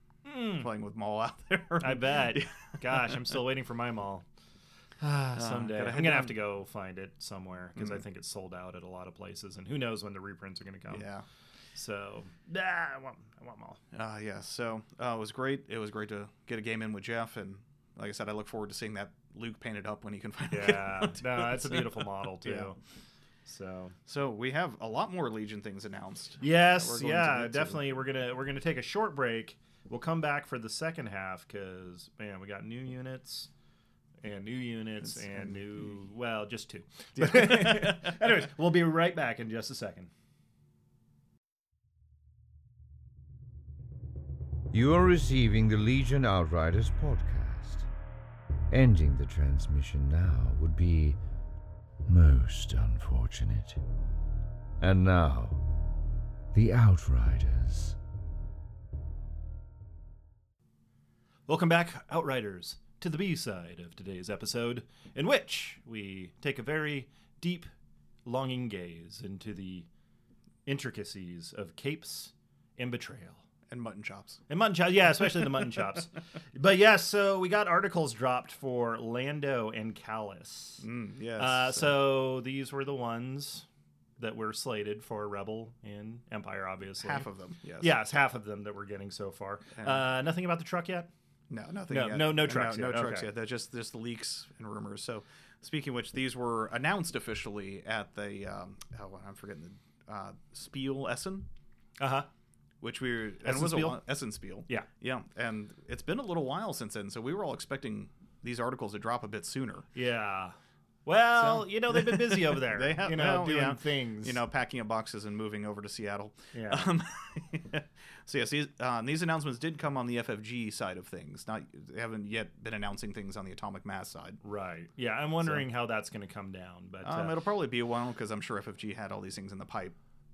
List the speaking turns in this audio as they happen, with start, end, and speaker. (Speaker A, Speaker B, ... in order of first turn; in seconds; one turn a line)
Speaker A: 0.2-0.7
Speaker B: 0.6-3.4
Speaker A: 1.8-4.2
Speaker A: 5.0-11.1
Speaker B: 5.3-6.4
Speaker B: 10.9-11.2
Speaker A: 11.7-13.8
Speaker B: 13.9-22.7
Speaker A: 20.5-22.8
Speaker A: 23.4-23.9
Speaker B: 24.1-27.8
Speaker A: 26.4-33.5
Speaker A: 34.2-40.1
Speaker B: 35.2-35.5
Speaker B: 37.1-38.2
Speaker C: 44.7-47.9
Speaker C: 48.7-51.2
Speaker C: 52.0-53.8
Speaker C: 54.8-55.6
Speaker C: 56.5-58.0
Speaker A: 61.5-67.7
Speaker A: 68.2-69.9
Speaker A: 70.7-73.4
Speaker B: 73.7-74.4
Speaker A: 74.5-80.9
Speaker B: 80.8-82.0
Speaker A: 81.4-83.7
Speaker A: 84.2-87.2
Speaker B: 87.0-87.9
Speaker A: 87.8-91.1
Speaker B: 89.8-90.0
Speaker B: 91.5-101.5
Speaker A: 91.9-93.3
Speaker A: 102.0-102.3
Speaker B: 102.8-109.9
Speaker A: 103.4-104.0
Speaker A: 109.9-114.4
Speaker B: 111.4-124.4
Speaker A: 116.5-116.9
Speaker A: 124.4-127.4
Speaker B: 125.4-125.7
Speaker B: 127.0-130.0